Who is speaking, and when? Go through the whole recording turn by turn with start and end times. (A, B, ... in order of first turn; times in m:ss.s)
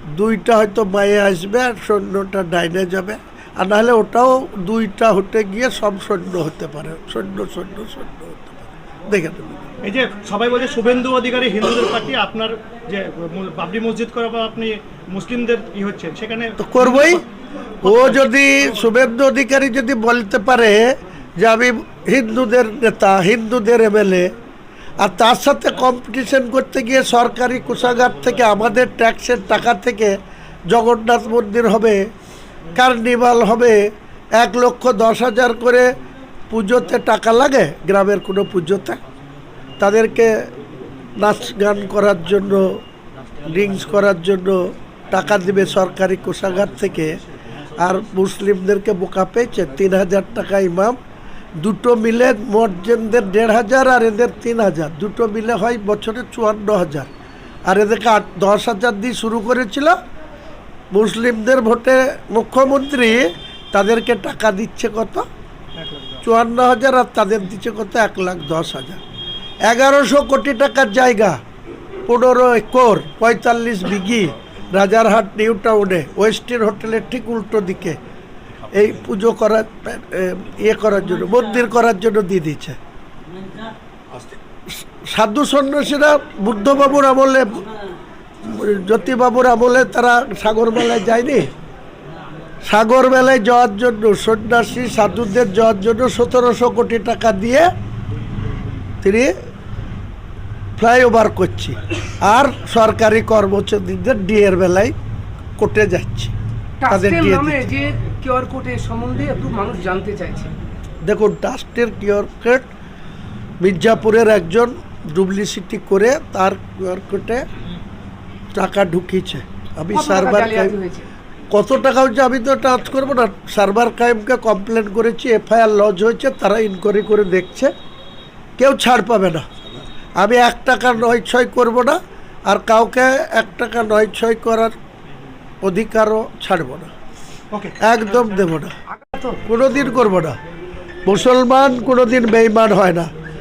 0:00.1-0:09.7 A
0:09.8-0:17.3 B
0:16.6-0:17.2 A
0:17.8-0:18.2 B
0:17.8-0:24.3 A
0:25.0-0:30.2 A
0:30.7-0:32.0 A
0:32.7-0:35.9 A
0:36.5-0:39.0 A
0:39.8-0:40.5 A
0:41.2-0:42.8 A
0:43.4-0:47.2 A
0:47.8-0:51.0 A
0:51.6-0:57.1 A
0:57.7-1:00.0 A
1:00.9-1:05.3 A
1:05.8-1:06.2 B
1:06.2-1:09.0 A
1:09.6-1:11.4 A
1:12.1-1:18.0 A
1:18.7-1:22.8 A
1:24.8-1:27.7 A
1:28.4-1:31.5 A
1:32.6-1:37.7 A
1:39.0-1:39.4 A
1:40.8-1:45.0 A
1:45.6-1:46.3 A
1:46.8-1:50.5 C
1:46.9-1:47.7 A
1:51.0-1:52.7 A
1:53.6-1:57.4 A
1:58.5-2:00.8 A
1:59.9-2:01.0 C
2:01.5-2:07.7 A
2:08.6-2:09.5 A
2:10.2-2:14.8 A
2:15.6-2:16.9 A
2:17.5-2:17.8 B
2:17.8-2:18.8 A
2:19.0-2:19.4 C
2:19.4-2:20.4 A
2:21.1-2:23.1 A